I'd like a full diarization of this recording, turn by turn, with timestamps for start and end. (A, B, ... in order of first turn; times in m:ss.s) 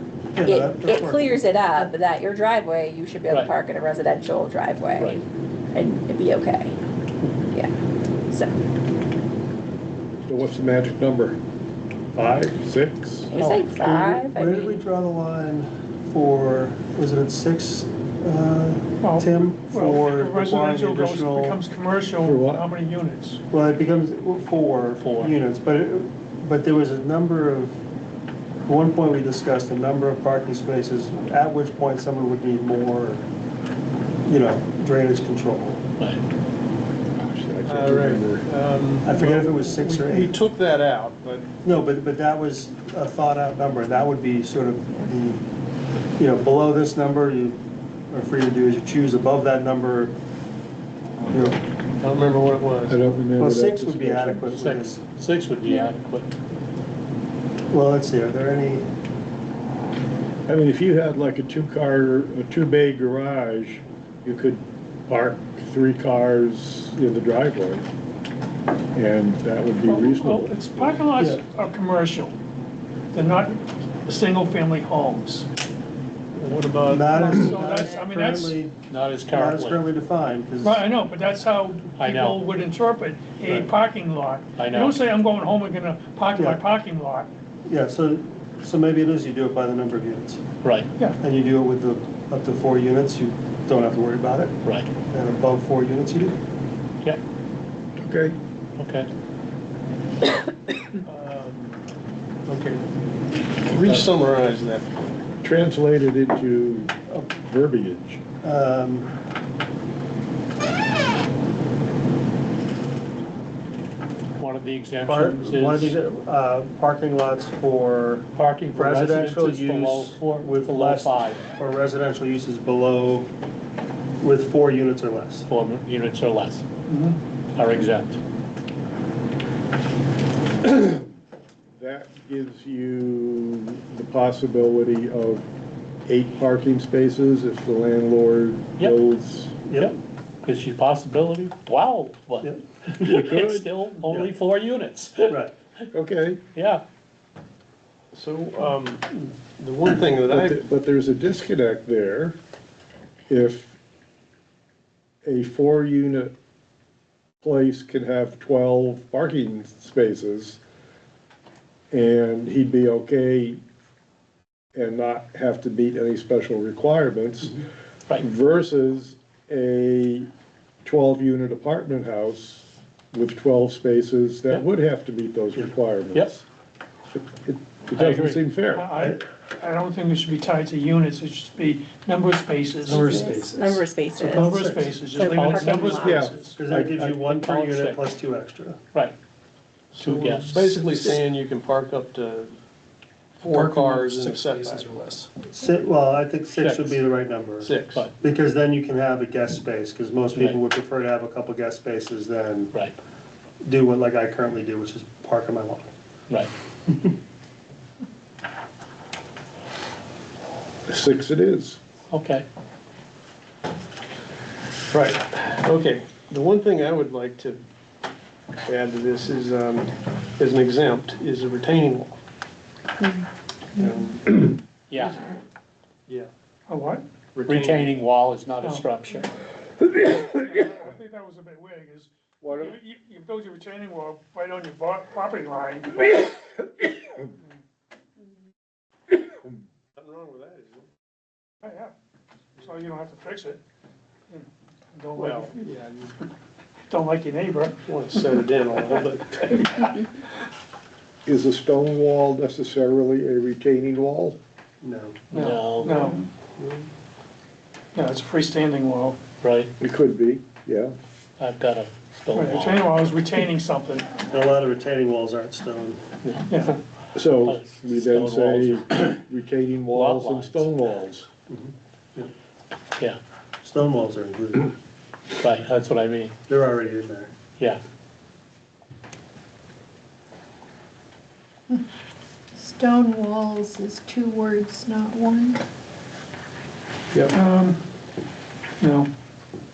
0:00.3-0:01.8 A
0:00.4-0:05.2 B
0:05.7-0:06.7 B
0:10.3-0:11.4 C
0:12.1-0:13.3 C
0:13.3-0:14.8 B
0:13.4-0:21.6 A
0:19.0-0:23.4 D
0:22.2-0:22.6 C
0:23.5-0:27.8 A
0:25.0-0:25.3 E
0:28.6-0:33.2 A
0:34.2-0:35.8 A
0:37.2-0:38.5 C
0:37.6-0:41.5 F
0:39.0-0:40.4 A
0:41.6-0:45.4 A
0:46.2-0:50.1 A
0:51.3-0:51.6 A
0:52.0-0:53.0 F
0:52.9-0:54.8 C
0:53.4-0:55.0 A
0:54.6-0:56.3 E
0:57.7-0:58.9 A
1:00.5-1:07.9 C
1:08.9-1:10.9 C
1:09.8-1:12.4 D
1:11.2-1:11.4 A
1:13.1-1:15.5 D
1:16.3-1:17.6 F
1:16.9-1:18.7 A
1:17.1-1:18.6 D
1:18.9-1:19.8 E
1:19.3-1:20.8 A
1:20.6-1:27.3 D
1:22.0-1:22.4 E
1:24.6-1:25.0 E
1:26.3-1:26.6 A
1:27.6-1:30.4 A
1:30.6-1:30.9 E
1:31.2-1:34.6 A
1:34.6-1:34.9 E
1:35.1-1:36.4 A
1:38.0-1:38.4 C
1:38.8-1:39.1 E
1:41.0-1:41.8 F
1:42.5-1:42.8 F
1:43.4-1:44.9 F
1:45.4-1:48.2 C
1:48.4-1:49.1 A
1:54.4-1:56.0 E
1:55.0-2:03.3 A
1:58.3-2:01.4 E
2:04.2-2:05.5 A
2:05.5-2:06.6 E
2:06.9-2:07.2 D
2:07.5-2:08.2 E
2:10.6-2:11.2 C
2:11.8-2:15.5 C
2:16.1-2:19.6 C
2:19.6-2:20.0 A
2:19.8-2:25.4 E
2:22.4-2:23.1 A
2:23.0-2:23.7 C
2:25.9-2:26.4 C
2:26.5-2:26.8 E
2:28.1-2:30.6 F
2:30.3-2:32.4 C
2:33.3-2:33.8 C
2:35.2-2:36.3 C
2:37.4-2:40.6 C
2:41.9-2:43.6 C
2:44.7-2:50.3 C
2:50.8-2:56.4 C
2:57.1-2:59.1 C
2:57.9-2:58.4 E
2:58.7-3:03.4 D
3:02.9-3:05.0 A
3:02.9-3:04.6 B
3:02.9-3:03.2 F
3:04.3-3:06.6 D
3:05.1-3:06.2 B
3:05.3-3:06.1 E
3:06.0-3:07.2 C
3:06.6-3:08.8 A
3:07.2-3:08.0 E
3:09.9-3:12.5 F
3:10.0-3:11.1 E
3:13.4-3:15.3 F
3:14.5-3:14.8 A
3:15.4-3:22.7 A
3:16.5-3:17.0 E
3:17.6-3:18.1 F
3:20.3-3:20.6 E
3:23.6-3:25.9 A
3:26.9-3:27.1 A
3:30.9-3:31.8 C
3:32.1-3:32.4 E
3:34.9-3:37.6 F
3:38.6-3:42.2 F
3:43.8-3:44.5 F
3:44.9-3:45.2 E
3:46.7-3:47.0 D
3:47.3-3:48.0 F
3:47.4-3:49.3 E
3:50.4-3:56.0 D
3:52.4-3:52.8 C
4:00.0-4:00.8 F
4:01.6-4:01.9 D
4:02.6-4:03.6 D
4:04.3-4:05.7 D
4:05.2-4:06.2 F
4:06.9-4:07.8 D
4:07.8-4:10.0 F
4:11.2-4:14.4 C
4:14.8-4:15.9 A
4:15.3-4:16.0 E
4:15.3-4:16.3 D
4:17.9-4:19.2 D
4:19.4-4:19.7 E
4:19.8-4:20.9 C
4:21.4-4:22.8 E
4:22.3-4:24.1 D
4:24.3-4:26.0 A
4:26.2-4:26.8 E
4:26.5-4:26.7 D
4:27.1-4:31.3 C
4:27.3-4:29.0 E
4:29.9-4:30.7 E
4:31.5-4:32.3 A
4:33.6-4:34.7 A
4:35.4-4:36.4 E
4:36.5-4:37.3 A
4:42.5-4:45.6 G
4:47.3-4:47.8 D
4:48.8-4:49.1 D